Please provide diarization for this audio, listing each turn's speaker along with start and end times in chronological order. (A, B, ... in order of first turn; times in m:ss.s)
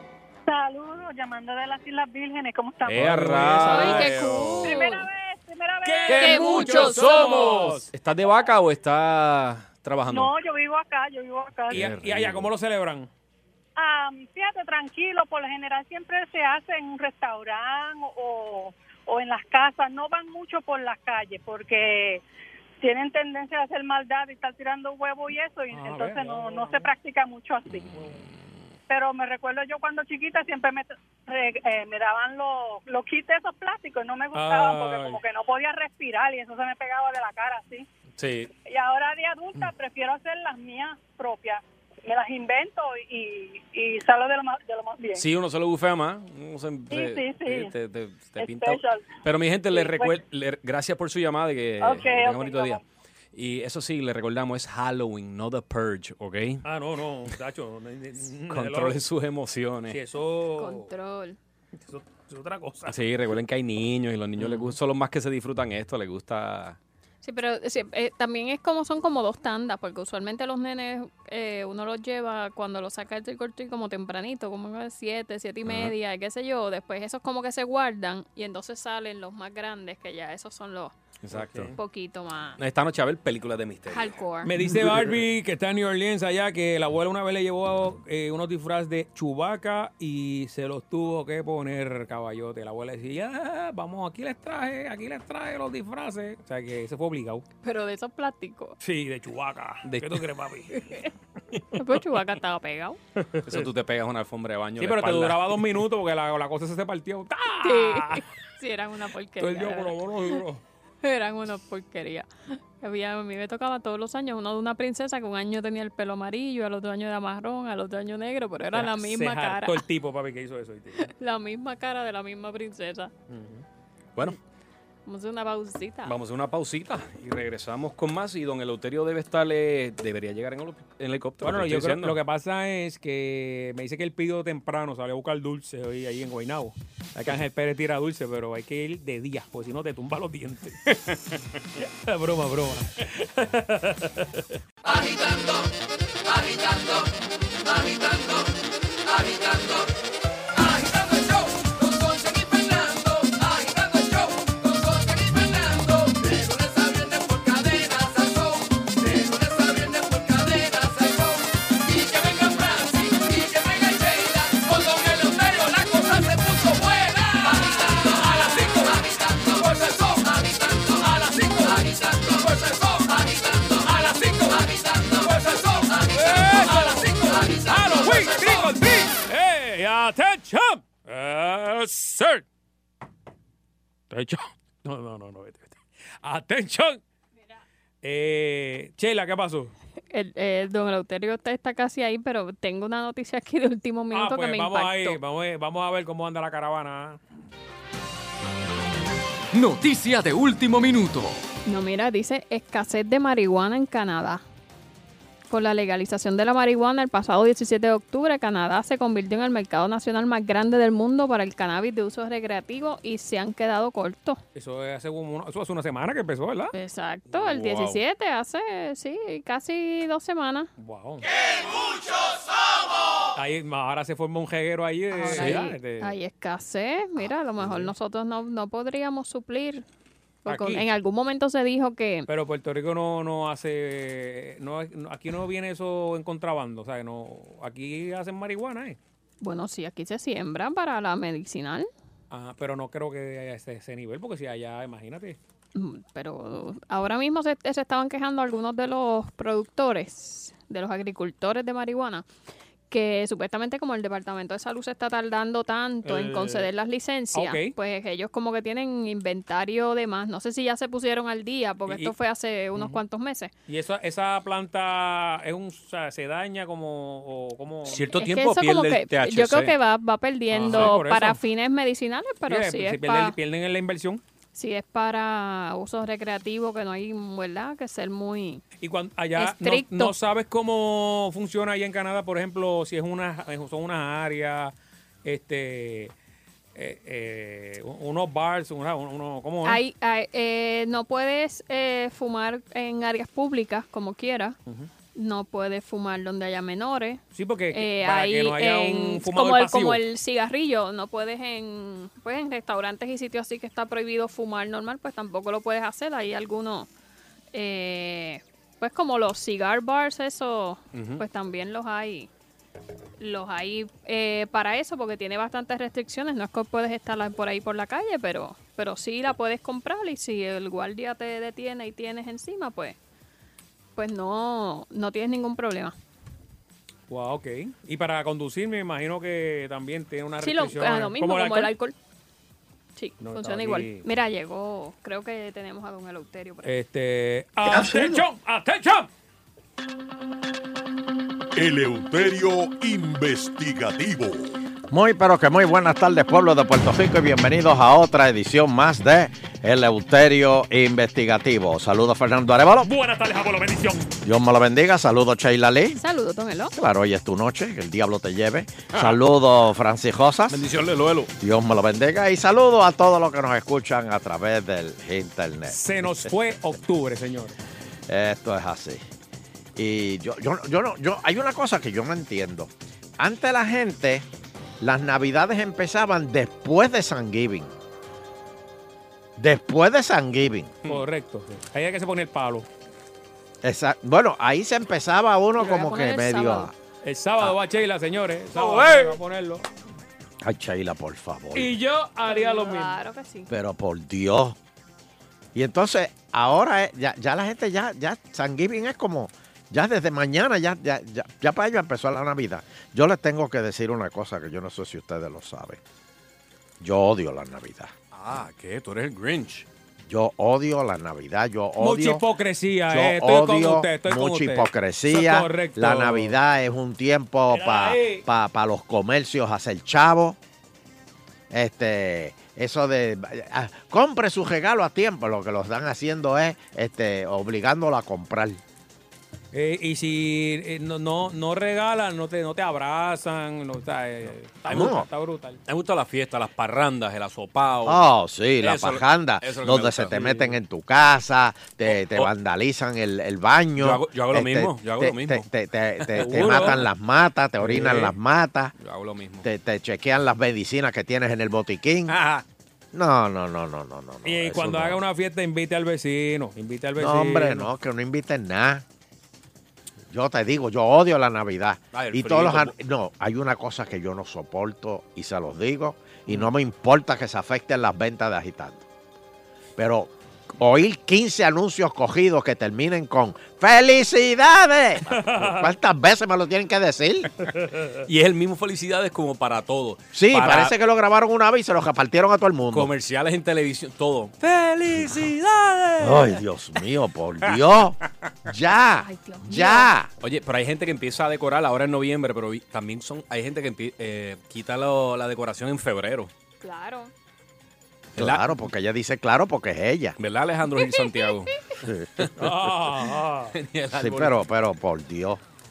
0:00.4-0:03.1 A
0:02.8-0:04.8 B
0:02.9-0:04.5 C
0:03.6-0:05.1 D
0:04.6-0:06.6 A
0:05.8-0:07.9 C
0:06.1-0:07.4 D
0:06.1-0:10.3 B
0:10.1-0:11.8 A
0:11.7-0:12.5 B
0:11.7-0:13.1 C
0:13.8-0:22.2 A
0:22.8-0:28.0 A
0:25.7-0:26.9 C
0:27.9-0:28.2 C
0:28.9-0:37.8 A
0:34.3-0:35.2 C
0:38.2-0:38.5 B
0:38.6-0:45.2 A
0:45.1-0:52.8 B
0:46.9-0:47.7 A
0:48.4-0:49.1 A
0:49.7-0:50.2 A
0:51.8-0:52.8 A
0:53.3-0:56.6 B
0:56.6-0:59.0 C
0:58.5-1:00.0 B
0:59.9-1:00.9 C
1:00.6-1:01.4 D
1:01.8-1:03.0 C
1:02.8-1:06.8 B
1:04.4-1:04.7 C
1:07.2-1:21.0 D
1:15.6-1:15.9 B
1:21.2-1:21.7 B
1:21.3-1:21.7 C
1:21.7-1:22.6 D
1:22.6-1:25.1 B
1:23.9-1:24.5 D
1:24.4-1:37.4 C
1:37.6-1:38.8 D
1:38.8-1:40.8 C
1:40.7-1:41.1 D
1:41.8-1:43.0 D
1:43.2-1:43.7 C
1:43.4-1:45.5 B
1:44.8-1:48.2 C
1:47.6-1:50.0 D
1:49.4-1:50.6 C
1:51.0-1:59.8 D
1:58.7-2:01.1 C
2:01.0-2:03.1 D
2:03.3-2:03.6 C
2:05.1-2:06.2 D
2:06.0-2:12.2 B
2:11.4-2:20.8 C
2:21.8-2:24.4 C
2:24.8-2:25.7 E
2:26.2-2:27.1 E
2:27.6-2:28.5 E
2:29.0-2:29.9 E
2:30.6-2:58.7 E
2:56.1-3:02.4 C
3:04.1-3:07.0 C
3:08.0-3:09.7 C
3:10.1-3:15.2 D
3:14.1-3:17.2 C
3:19.6-3:21.2 E
3:21.6-3:24.4 D
3:25.5-3:34.4 D
3:34.5-3:36.7 C
3:36.7-3:40.7 D
3:37.4-3:38.0 B
3:40.8-3:41.2 C
3:43.3-3:46.1 C
3:45.1-3:49.8 D
3:47.6-3:47.9 C
3:50.4-3:52.3 D
3:50.5-3:50.9 C
3:52.3-3:59.0 C
3:59.4-4:01.9 D
4:02.3-4:05.4 C
4:05.7-4:12.3 D
4:12.9-4:23.5 D
4:16.0-4:16.7 C
4:17.3-4:17.7 C
4:21.8-4:22.2 C
4:22.7-4:23.0 C
4:23.7-4:28.1 C
4:27.8-4:29.8 B
4:28.2-4:33.4 D
4:30.5-4:31.4 C
4:32.4-4:34.2 C
4:34.5-4:38.6 D
4:38.8-4:46.1 C
4:39.4-4:40.1 D
4:46.7-4:49.8 C
4:49.6-4:54.6 D
4:55.1-4:57.2 D
4:57.3-5:00.0 C
4:57.7-5:06.9 D
5:07.5-5:12.3 D
5:10.9-5:11.2 B
5:13.2-5:23.0 D
5:24.0-5:25.9 D
5:27.1-5:31.7 C
5:30.4-5:31.9 D
5:33.0-5:36.7 D
5:33.2-5:34.1 C
5:36.6-5:39.1 C
5:41.6-5:44.6 F
5:44.9-5:52.9 G
5:52.8-5:54.1 C
5:54.2-5:56.0 G
5:55.9-5:56.7 D
5:56.7-6:00.6 G
5:58.9-5:59.2 B
6:00.5-6:01.3 B
6:01.4-6:06.3 G
6:05.7-6:07.6 C
6:08.1-6:09.0 G
6:09.8-6:14.2 G
6:14.8-6:17.7 G
6:19.4-6:20.8 G
6:20.8-6:22.7 C
6:23.6-6:26.7 G
6:25.6-6:26.7 D
6:27.0-6:29.7 C
6:28.6-6:29.1 B
6:30.4-6:31.7 G
6:31.5-6:33.0 C
6:32.2-6:33.5 D
6:33.5-6:34.6 G
6:35.5-6:45.8 G
6:46.8-6:47.9 G
6:48.1-6:49.7 B
6:50.1-6:52.2 G
6:51.8-6:56.4 C
6:52.9-7:00.4 G
6:57.5-6:58.2 C
7:01.5-7:08.6 G
7:09.5-7:15.6 C
7:14.7-7:15.1 G
7:15.6-7:18.0 B
7:17.8-7:28.7 G
7:18.6-7:20.4 B
7:20.2-7:20.5 C
7:21.9-7:22.3 B
7:23.8-7:25.4 B
7:26.0-7:26.8 B
7:26.2-7:26.9 C
7:27.6-7:28.1 C
7:28.8-7:29.4 B
7:29.4-7:32.1 G
7:32.1-7:32.4 B
7:32.9-7:35.0 G
7:34.2-7:37.7 C
7:37.0-7:38.8 G
7:40.1-7:48.8 G
7:41.9-7:42.7 B
7:49.8-7:57.3 G
7:55.0-7:55.7 C
7:57.7-7:58.0 C
7:58.0-8:00.7 B
8:00.1-8:02.9 G
8:02.7-8:06.4 B
8:06.0-8:10.1 G
8:09.0-8:09.9 D
8:10.2-8:16.3 B
8:16.6-8:17.1 D
8:18.2-8:18.6 B
8:18.2-8:20.2 G
8:20.2-8:21.5 B
8:22.4-8:23.5 C
8:23.5-8:24.4 B
8:23.9-8:25.4 G